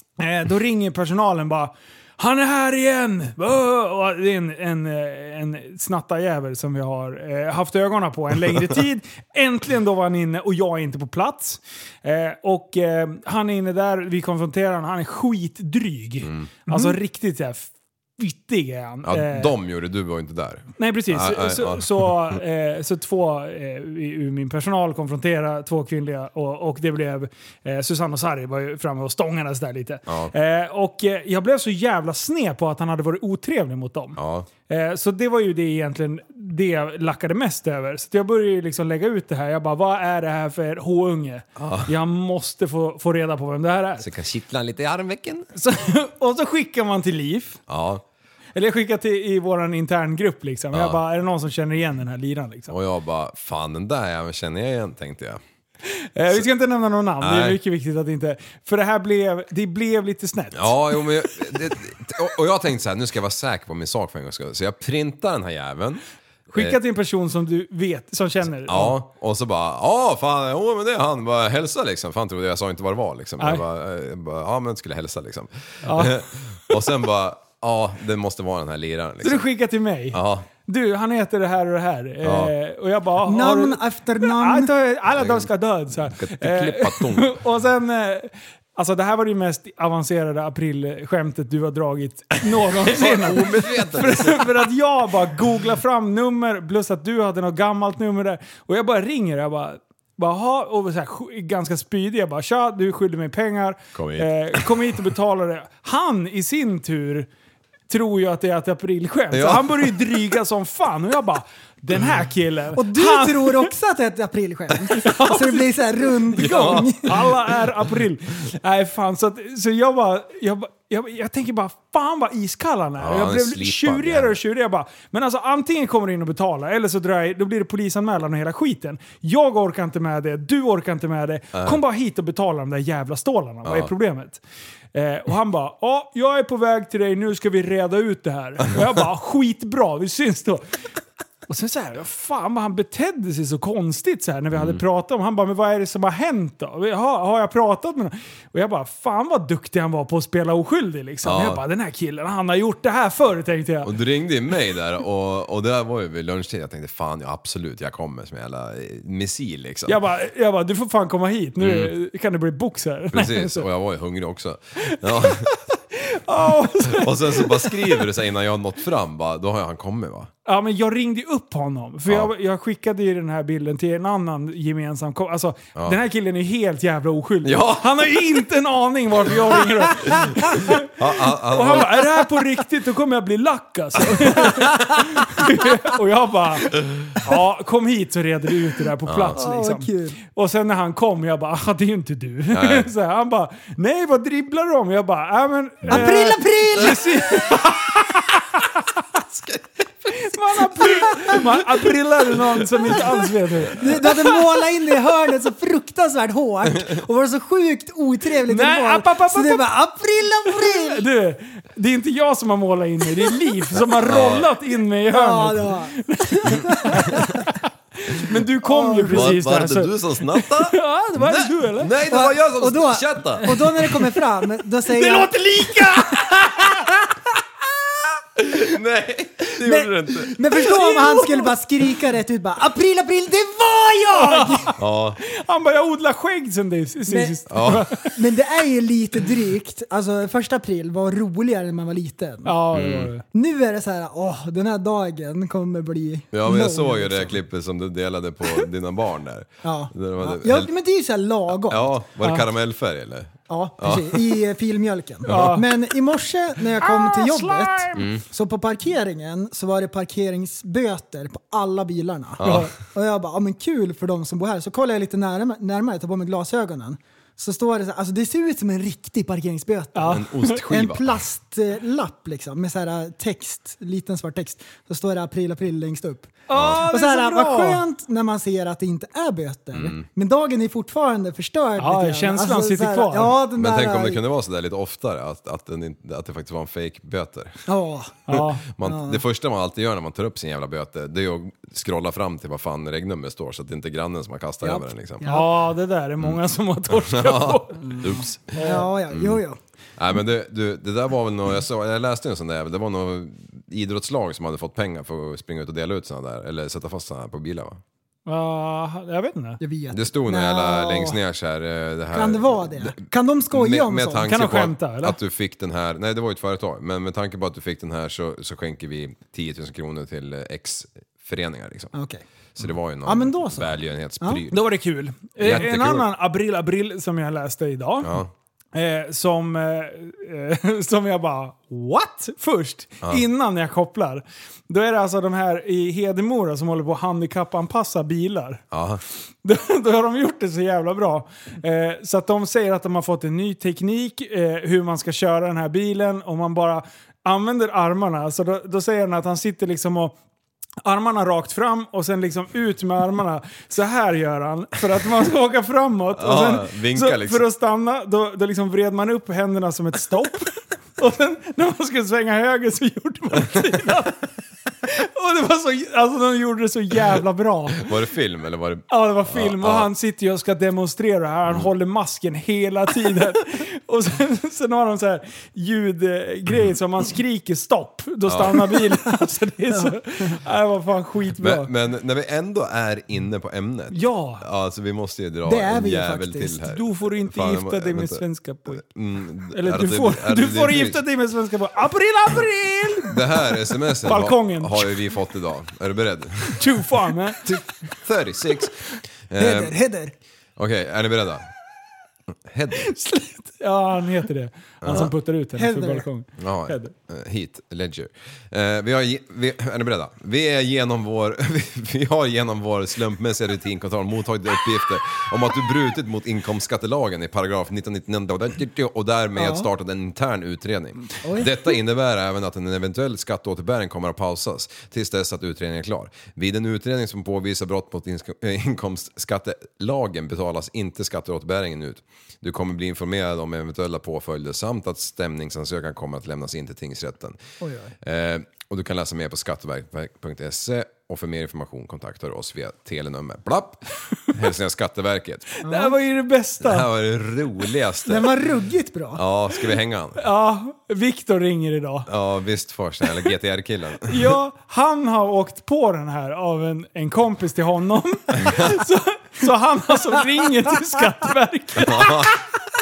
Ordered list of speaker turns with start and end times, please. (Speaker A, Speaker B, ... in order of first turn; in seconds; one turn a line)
Speaker A: 0.2-19.5
Speaker B: 16.2-16.5
Speaker C: 16.7-16.9
Speaker B: 19.0-22.4
Speaker A: 20.8-44.1
Speaker B: 30.1-30.3
Speaker B: 34.2-34.5
Speaker B: 41.6-41.9
Speaker B: 44.0-45.5
Speaker A: 45.5-47.6
Speaker B: 47.7-48.0
Speaker A: 48.5-52.7
Speaker B: 50.7-51.0
Speaker B: 52.7-55.4
Speaker A: 55.9-60.8
Speaker B: 57.2-57.6
Speaker B: 60.5-66.0
Speaker A: 66.5-69.0
Speaker B: 68.6-79.4
Speaker A: 75.8-76.2
Speaker A: 79.2-107.3
Speaker B: 80.1-80.5
Speaker B: 82.2-82.5
Speaker C: 83.2-84.7
Speaker B: 85.1-87.3
Speaker B: 92.5-94.5
Speaker B: 103.9-104.7
Speaker A: 107.9-113.7
Speaker B: 109.3-110.0
Speaker C: 112.7-117.2
Speaker A: 115.0-115.7
Speaker B: 116.3-117.3
Speaker A: 116.4-134.4
Speaker B: 123.0-124.4
Speaker B: 131.5-131.8
Speaker B: 133.6-133.9
Speaker A: 134.9-140.6
Speaker A: 141.5-153.9
Speaker B: 144.5-144.8
Speaker B: 151.2-151.6
Speaker B: 153.8-160.0
Speaker A: 159.9-163.7
Speaker B: 161.6-161.9
Speaker B: 163.1-165.5
Speaker A: 164.9-168.0
Speaker B: 166.8-170.3
Speaker A: 170.4-180.9
Speaker B: 175.7-176.0
Speaker B: 177.4-178.2
Speaker B: 180.0-182.1
Speaker A: 181.4-199.0
Speaker B: 184.0-184.9
Speaker B: 189.1-189.4
Speaker C: 189.3-190.2
Speaker B: 192.5-192.9
Speaker C: 195.9-197.0
Speaker B: 199.3-199.6
Speaker A: 200.1-204.3
Speaker C: 200.8-201.4
Speaker C: 203.7-211.0
Speaker A: 208.5-209.7
Speaker A: 210.6-221.9
Speaker B: 213.9-214.5
Speaker C: 215.1-217.4
Speaker C: 218.6-219.3
Speaker B: 219.1-223.8
Speaker C: 222.0-225.4
Speaker A: 224.9-226.9
Speaker B: 228.4-230.6
Speaker C: 229.6-234.7
Speaker A: 230.7-231.4
Speaker A: 234.2-234.7
Speaker B: 234.8-235.2
Speaker A: 235.2-238.2
Speaker C: 237.1-237.4
Speaker B: 237.5-237.8
Speaker C: 238.0-242.6
Speaker A: 242.4-243.2
Speaker B: 242.7-243.1
Speaker C: 243.3-247.4
Speaker B: 246.3-250.7
Speaker C: 249.6-251.9
Speaker B: 251.6-254.4
Speaker C: 253.5-284.2
Speaker A: 255.3-255.6
Speaker B: 255.3-255.6
Speaker A: 256.8-258.0
Speaker B: 257.9-258.2
Speaker B: 262.4-262.7
Speaker A: 262.4-262.7
Speaker A: 269.9-270.6
Speaker B: 270.0-271.2
Speaker A: 276.5-277.8
Speaker B: 276.5-276.8
Speaker B: 279.7-280.1
Speaker A: 281.8-283.4
Speaker B: 283.5-287.6
Speaker C: 287.7-288.2
Speaker A: 288.3-288.6
Speaker B: 288.3-295.2
Speaker C: 288.8-289.2
Speaker C: 294.6-295.5
Speaker A: 295.2-298.0
Speaker B: 296.2-299.4
Speaker C: 297.8-299.6
Speaker A: 298.5-298.9
Speaker B: 300.0-307.8
Speaker A: 308.3-309.6
Speaker C: 309.6-311.2
Speaker B: 309.9-321.9
Speaker C: 312.1-314.4
Speaker A: 314.2-315.2
Speaker C: 321.9-322.2
Speaker B: 322.6-324.7
Speaker C: 323.0-324.4
Speaker A: 324.5-328.1
Speaker B: 325.4-326.1
Speaker B: 328.0-328.3
Speaker A: 328.7-338.6
Speaker B: 338.7-339.0
Speaker A: 339.4-350.1
Speaker A: 350.8-364.2
Speaker B: 356.1-357.5
Speaker A: 364.8-367.8
Speaker B: 367.8-369.9
Speaker A: 368.9-381.7
Speaker B: 378.2-378.7
Speaker B: 381.4-391.0
Speaker A: 383.9-384.4
Speaker C: 385.4-386.6
Speaker A: 386.6-388.8
Speaker A: 389.5-393.4
Speaker B: 393.1-396.8
Speaker A: 394.0-395.0
Speaker A: 396.6-397.4
Speaker B: 397.4-399.8
Speaker C: 399.4-400.1
Speaker B: 400.6-401.5
Speaker B: 402.4-402.9
Speaker A: 402.8-406.9
Speaker B: 404.8-405.1
Speaker C: 404.9-406.1
Speaker B: 406.4-437.4
Speaker C: 419.4-419.7
Speaker C: 421.2-421.7
Speaker C: 437.6-437.9
Speaker B: 438.0-445.4
Speaker A: 445.6-446.9
Speaker C: 445.6-445.9
Speaker B: 446.6-448.4
Speaker C: 448.1-449.2
Speaker B: 449.1-450.2
Speaker A: 450.2-452.1
Speaker B: 452.1-454.4
Speaker A: 454.0-462.2
Speaker B: 458.4-458.7
Speaker B: 461.8-462.3